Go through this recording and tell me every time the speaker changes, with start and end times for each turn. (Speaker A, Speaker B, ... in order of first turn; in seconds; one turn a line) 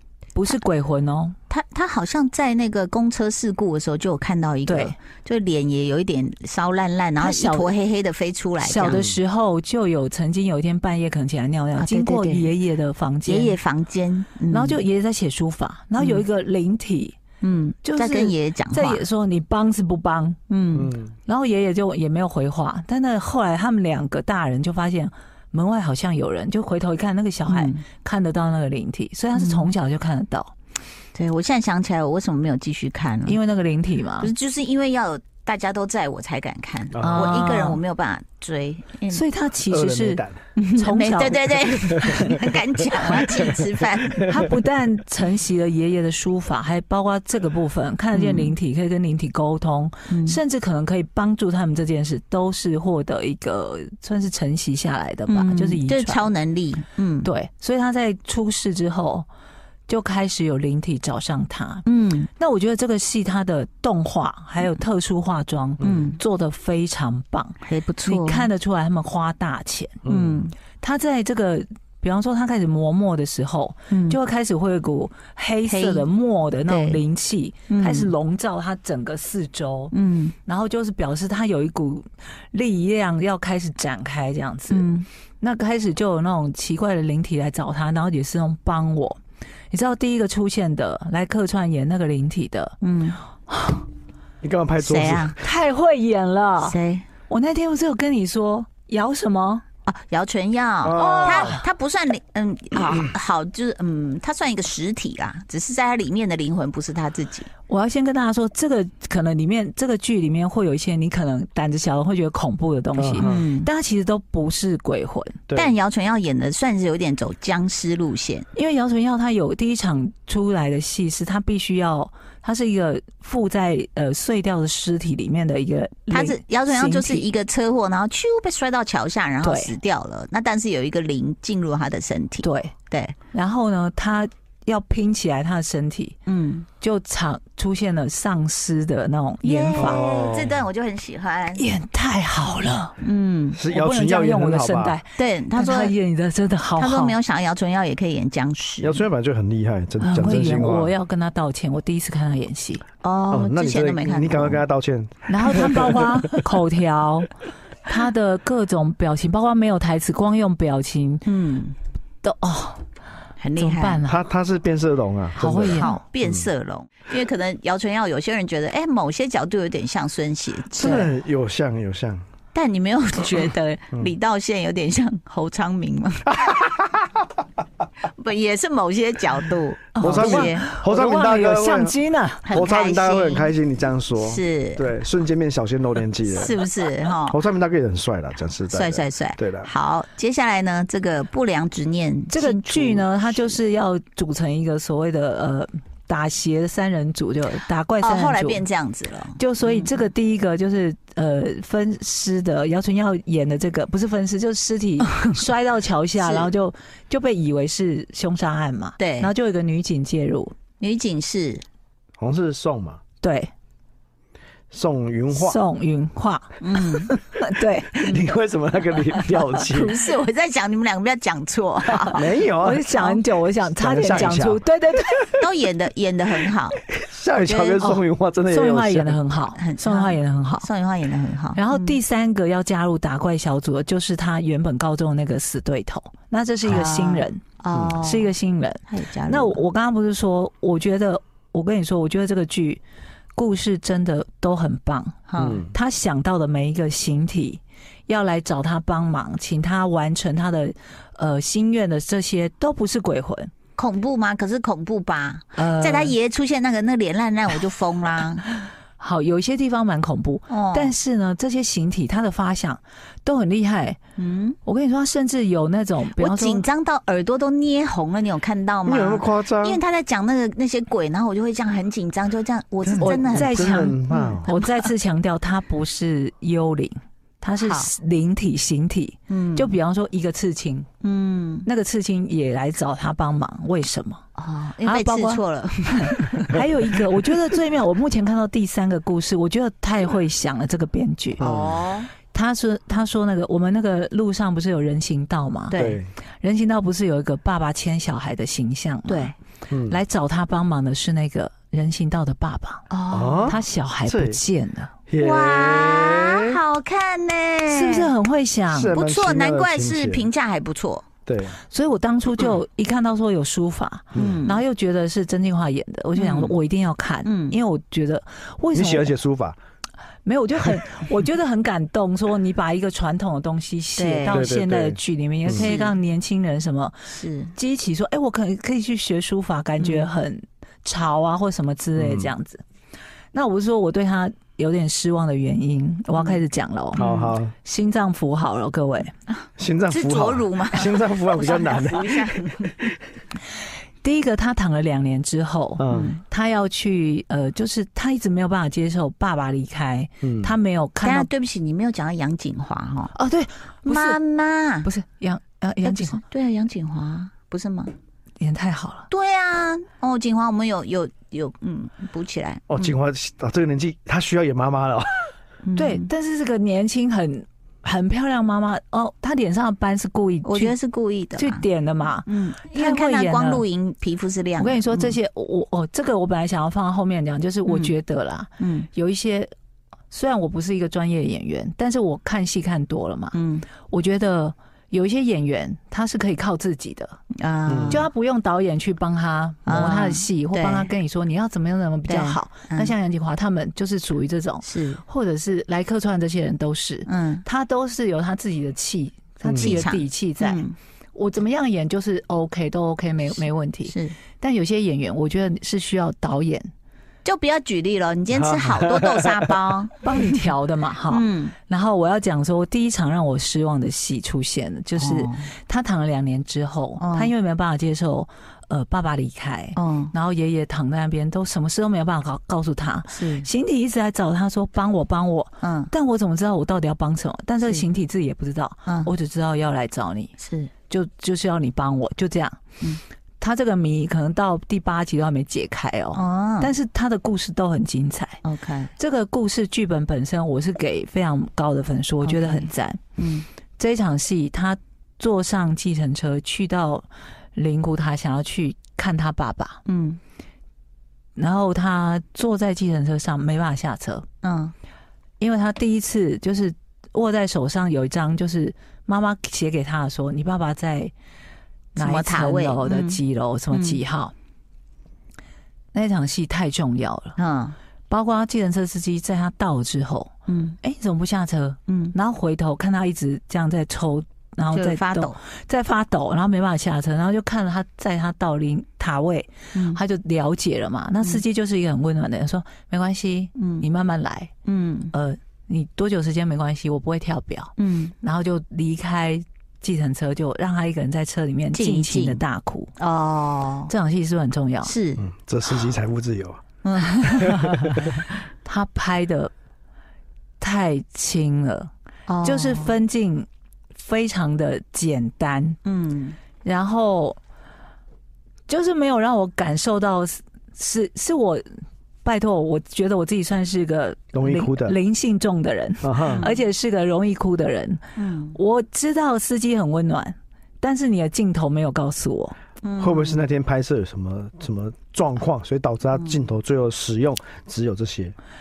Speaker A: 0.3-1.4
Speaker B: 1.5-9.0
Speaker A: 4.7-5.0
Speaker A: 7.2-7.7
Speaker A: 8.6-13.5
Speaker C: 8.9-9.2
Speaker B: 11.8-12.5
Speaker B: 13.2-14.8
Speaker A: 14.5-17.2
Speaker B: 16.0-16.2
Speaker B: 17.4-19.0
Speaker A: 17.8-20.4
Speaker B: 20.5-20.9
Speaker C: 20.8-21.1
Speaker A: 21.3-30.5
Speaker B: 27.5-27.8
Speaker B: 29.3-29.7
Speaker B: 31.1-33.4
Speaker A: 33.2-34.3
Speaker B: 34.2-39.2
Speaker C: 36.9-37.4
Speaker A: 37.0-37.8
Speaker A: 39.1-42.4
Speaker C: 39.7-40.4
Speaker B: 40.8-44.3
Speaker C: 41.9-42.4
Speaker C: 43.1-43.5
Speaker A: 44.3-56.3
Speaker B: 48.1-48.5
Speaker B: 50.1-50.4
Speaker B: 55.3-57.3
Speaker A: 57.2-59.3
Speaker A: 59.9-61.8
Speaker B: 61.8-62.3
Speaker A: 62.4-70.0
Speaker C: 65.8-66.1
Speaker B: 65.8-66.2
Speaker B: 67.6-68.5
Speaker C: 70.0-70.4
Speaker B: 70.0-70.5
Speaker A: 70.8-79.9
Speaker B: 73.9-74.2
Speaker B: 75.7-76.1
Speaker B: 76.7-77.0
Speaker B: 77.7-78.1
Speaker B: 79.9-80.3
Speaker A: 80.5-84.9
Speaker B: 84.7-85.1
Speaker A: 85.4-89.2
Speaker A: 89.7-92.8
Speaker B: 92.8-93.2
Speaker A: 93.5-93.8
Speaker C: 94.4-95.4
Speaker B: 94.8-95.4
Speaker A: 95.4-96.8
Speaker B: 96.6-97.0
Speaker A: 97.3-99.6
Speaker B: 99.8-107.5
Speaker C: 100.8-101.6
Speaker A: 100.9-101.6
Speaker A: 107.7-115.4
Speaker C: 113.0-113.4
Speaker B: 113.2-113.7
Speaker B: 115.5-118.5
Speaker A: 118.5-127.3
Speaker B: 126.1-133.2
Speaker A: 129.4-129.7
Speaker A: 132.4-132.7
Speaker A: 133.3-136.2
Speaker B: 136.2-136.7
Speaker A: 136.8-140.0
Speaker B: 139.4-141.6
Speaker C: 139.7-140.6
Speaker A: 141.6-142.9
Speaker B: 143.0-143.6
Speaker C: 143.5-145.0
Speaker A: 143.6-147.2
Speaker B: 145.2-145.9
Speaker B: 146.8-149.0
Speaker C: 148.8-150.9
Speaker A: 150.0-152.8
Speaker B: 153.0-154.6
Speaker C: 153.3-156.2
Speaker A: 155.3-157.3
Speaker A: 157.8-161.2
Speaker B: 161.2-161.8
Speaker A: 162.2-162.8
Speaker B: 163.4-164.0
Speaker A: 163.6-164.2
Speaker C: 164.0-166.5
Speaker A: 165.3-166.0
Speaker B: 165.5-171.1
Speaker C: 170.7-172.2
Speaker A: 170.8-171.1
Speaker B: 172.5-176.3
Speaker C: 176.4-177.0
Speaker B: 178.0-180.6
Speaker A: 179.9-182.4
Speaker C: 180.0-182.0
Speaker B: 182.4-183.5
Speaker C: 182.5-186.6
Speaker B: 184.2-184.9
Speaker B: 186.3-187.4
Speaker C: 187.3-189.7
Speaker B: 188.7-193.5
Speaker A: 192.3-198.6
Speaker B: 198.0-199.9
Speaker A: 199.4-210.5
Speaker B: 206.2-206.5
Speaker B: 209.0-209.3
Speaker B: 210.8-211.6
Speaker C: 212.2-213.0
Speaker A: 213.2-213.5
Speaker C: 214.7-215.6
Speaker A: 215.3-218.2
Speaker B: 216.6-217.1
Speaker C: 218.0-219.9
Speaker A: 219.1-219.5
Speaker B: 219.6-222.3
Speaker A: 222.0-225.3
Speaker C: 222.1-223.0
Speaker C: 223.6-224.6
Speaker B: 224.0-224.3
Speaker B: 225.4-226.8
Speaker C: 226.9-229.2
Speaker B: 227.4-227.8
Speaker A: 227.8-230.7
Speaker B: 229.5-232.0
Speaker A: 231.6-237.4
Speaker B: 236.6-238.3
Speaker A: 238.0-242.8
Speaker B: 238.9-239.6
Speaker A: 243.3-253.5
Speaker B: 245.3-245.6
Speaker C: 245.4-245.7
Speaker B: 253.8-258.4
Speaker A: 255.6-256.1
Speaker A: 259.0-264.0
Speaker B: 260.5-260.9
Speaker B: 264.2-264.6
Speaker A: 264.6-266.6
Speaker B: 266.1-274.8
Speaker C: 268.9-269.8
Speaker C: 272.8-274.5
Speaker A: 273.0-280.9
Speaker B: 277.6-277.9
Speaker B: 279.3-279.8
Speaker B: 281.0-281.7
Speaker A: 281.6-284.2
Speaker B: 284.4-286.5
Speaker A: 284.8-291.4
Speaker C: 291.4-291.8
Speaker B: 291.4-292.1
Speaker A: 292.3-295.8
Speaker B: 295.7-296.0
Speaker C: 295.7-296.1
Speaker A: 296.4-299.3
Speaker B: 299.1-299.3
Speaker C: 299.7-300.0
Speaker A: 299.9-302.8
Speaker B: 302.9-303.6
Speaker C: 303.1-304.4
Speaker A: 303.5-304.9
Speaker C: 305.1-306.6
Speaker B: 305.2-308.1
Speaker A: 307.7-309.0
Speaker C: 308.7-310.3
Speaker B: 308.9-311.0
Speaker C: 311.2-311.6
Speaker A: 311.7-319.1
Speaker C: 314.1-314.4
Speaker B: 314.1-314.6
Speaker B: 316.1-316.5
Speaker B: 317.2-317.6
Speaker C: 318.7-319.6
Speaker A: 320.2-326.9
Speaker B: 324.0-324.4
Speaker C: 324.3-325.7
Speaker B: 325.5-326.0
Speaker B: 327.1-327.5
Speaker A: 327.6-332.6
Speaker B: 329.8-330.1
Speaker C: 331.9-332.3
Speaker A: 333.3-337.1
Speaker B: 336.1-336.4
Speaker C: 336.9-337.5
Speaker B: 337.0-337.3
Speaker A: 337.6-339.1
Speaker C: 339.6-342.3
Speaker B: 339.9-342.9
Speaker A: 344.0-351.3
Speaker C: 345.8-346.1
Speaker B: 345.9-346.2
Speaker C: 350.2-350.6
Speaker B: 351.0-353.1
Speaker A: 353.1-354.2
Speaker B: 353.8-354.9
Speaker A: 354.8-356.2
Speaker B: 355.8-357.9
Speaker A: 358.4-359.1
Speaker B: 359.1-362.9
Speaker C: 362.7-365.2
Speaker B: 365.6-366.1
Speaker A: 365.8-370.7
Speaker B: 370.4-371.6
Speaker A: 371.4-373.6
Speaker B: 372.2-375.1
Speaker A: 374.6-379.5
Speaker B: 377.6-377.9
Speaker B: 378.6-378.9
Speaker A: 380.1-383.3
Speaker B: 383.3-383.7
Speaker A: 383.9-387.2
Speaker B: 387.4-388.1
Speaker C: 387.7-388.1
Speaker A: 387.9-406.7
Speaker B: 389.6-390.9
Speaker B: 392.1-392.9
Speaker B: 394.6-395.0
Speaker B: 397.1-397.4
Speaker C: 399.4-399.8
Speaker B: 399.5-400.7
Speaker B: 403.9-404.1
Speaker B: 407.2-410.4
Speaker C: 408.3-409.5
Speaker A: 410.0-430.3
Speaker B: 411.1-411.5
Speaker B: 414.9-415.5
Speaker B: 417.0-417.3
Speaker B: 419.8-420.1
Speaker B: 423.1-423.5
Speaker B: 425.6-425.9
Speaker B: 428.9-429.1
Speaker B: 430.4-430.7
Speaker A: 430.9-432.6
Speaker A: 433.4-438.4
Speaker B: 436.1-436.7
Speaker B: 438.4-438.9
Speaker A: 439.0-443.0
Speaker B: 442.2-443.4
Speaker A: 443.8-449.8
Speaker B: 449.9-450.2
Speaker A: 451.4-454.2
Speaker B: 454.4-454.7
Speaker A: 455.4-461.1
Speaker A: 461.9-464.3
Speaker B: 461.9-463.2
Speaker B: 463.7-464.0
Speaker A: 465.9-467.4
Speaker B: 467.4-467.8
Speaker A: 468.1-470.3
Speaker B: 470.5-470.8
Speaker A: 470.8-484.5
Speaker B: 471.9-472.1
Speaker B: 474.7-475.4
Speaker B: 479.7-480.0
Speaker B: 483.6-483.9
Speaker B: 484.6-485.1
Speaker A: 485.1-492.9
Speaker B: 487.8-488.1
Speaker B: 491.7-492.4
Speaker B: 493.0-493.9
Speaker A: 493.9-494.9
Speaker B: 494.8-495.2
Speaker C: 495.2-496.6
Speaker B: 496.8-497.4
Speaker A: 497.2-499.5
Speaker C: 497.4-498.1
Speaker A: 500.6-501.9
Speaker B: 502.3-502.9
Speaker A: 502.4-505.8
Speaker B: 505.8-506.4
Speaker A: 506.6-507.4
Speaker A: 508.7-511.6
Speaker A: 512.2-518.0
Speaker C: 514.3-515.0
Speaker C: 516.0-516.4
Speaker B: 516.3-516.6
Speaker B: 518.2-518.6
Speaker A: 518.5-522.5
Speaker B: 522.8-523.4
Speaker C: 523.0-528.3
Speaker B: 526.1-526.4